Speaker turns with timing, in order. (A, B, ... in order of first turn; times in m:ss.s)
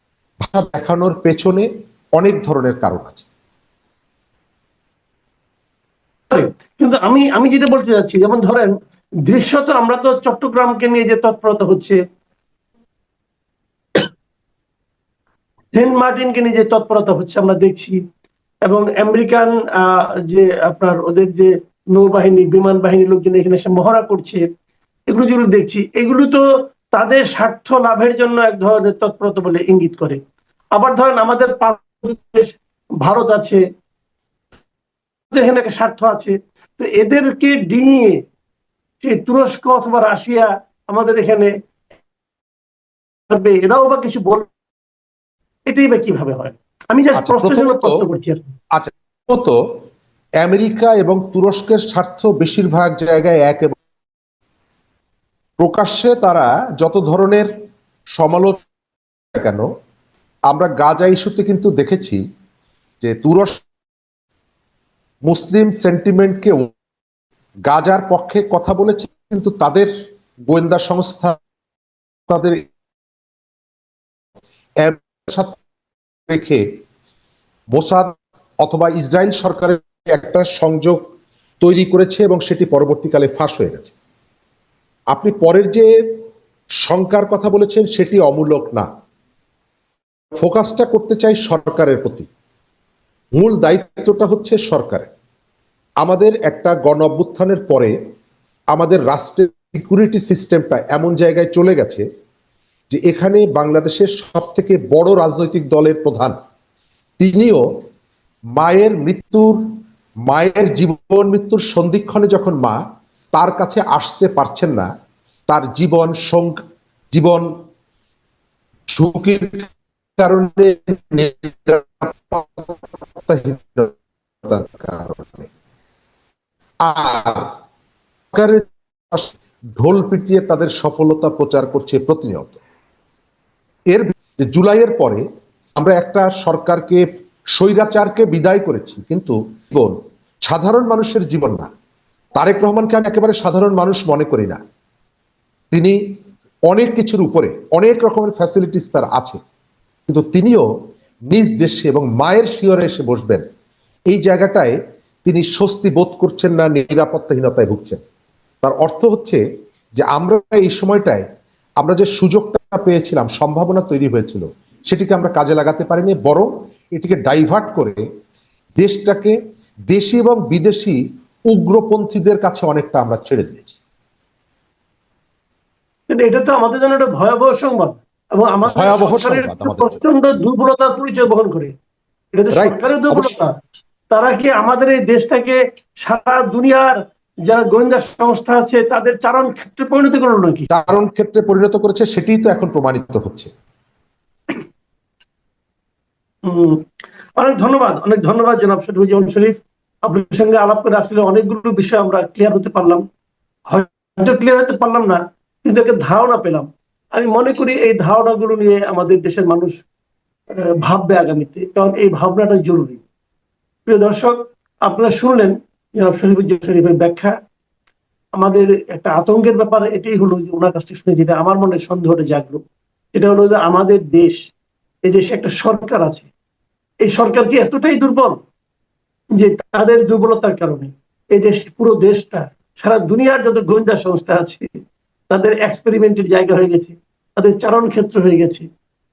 0:00.4-0:03.3 A
0:06.3-0:08.7 B
0:09.2-0:12.0 B
0:15.7-0:18.0 B
0:18.6-0:24.4 B
0:25.1-0:26.4 B
0:26.9-0:30.2 B
0:30.8-0:33.6 B
0:35.3-0:38.2 B
0:39.0-0:41.5 B
0:43.3-0:44.5 B
0:45.7-0:48.4 B
0:47.2-0:48.0 A
0:48.7-0:49.6 A
0:50.4-0:53.8 A
0:55.6-0:57.5 A
0:58.2-0:58.6 A
0:59.3-0:59.7 A
1:00.5-1:02.2 A
1:03.0-1:03.6 A
1:05.2-1:06.7 A
1:07.7-1:09.9 A
1:10.5-1:11.4 A
1:12.3-1:12.7 A
1:14.8-1:15.6 A
1:16.3-1:16.6 A
1:17.7-1:21.0 A
1:21.6-1:23.9 A
1:25.1-1:25.9 A
1:26.8-1:28.9 A
1:30.4-1:32.3 A
1:33.4-1:35.1 A
1:36.0-1:37.9 A
1:38.7-1:42.0 A
1:42.9-1:46.4 A
1:47.2-1:47.6 A
1:48.6-1:49.6 A
1:50.2-1:52.8 A
1:53.3-1:54.9 A
1:55.5-1:56.6 A
1:57.1-1:57.5 A
1:58.9-2:05.5 A
2:06.8-2:07.5 A
2:08.3-2:12.6 A
2:13.9-2:15.2 A
2:15.8-2:17.0 A
2:17.6-2:21.7 A
2:22.4-2:24.6 A
2:25.7-2:26.0 A
2:26.7-2:29.4 A
2:30.1-2:30.7 A
2:31.3-2:33.4 A
2:34.1-2:34.8 A
2:35.2-2:38.0 A
2:38.6-2:39.4 A
2:40.0-2:41.2 A
2:41.8-2:48.0 A
2:48.8-2:49.4 A
2:49.9-2:51.0 A
2:51.5-2:53.8 A
2:56.1-3:01.7 B
2:58.7-3:00.0 A
3:02.3-3:03.5 B
3:02.5-3:03.4 A
3:04.1-3:06.9 B
3:07.5-3:10.7 B
3:10.7-3:13.5 A
3:16.4-3:16.8 B
3:17.4-3:23.0 B
3:23.7-3:29.8 B
3:30.8-3:33.0 B
3:33.9-3:37.3 B
3:38.4-3:42.6 B
3:43.1-3:44.4 B
3:45.1-3:46.3 B
3:47.0-3:48.4 B
3:49.4-3:54.7 B
3:55.3-3:58.7 B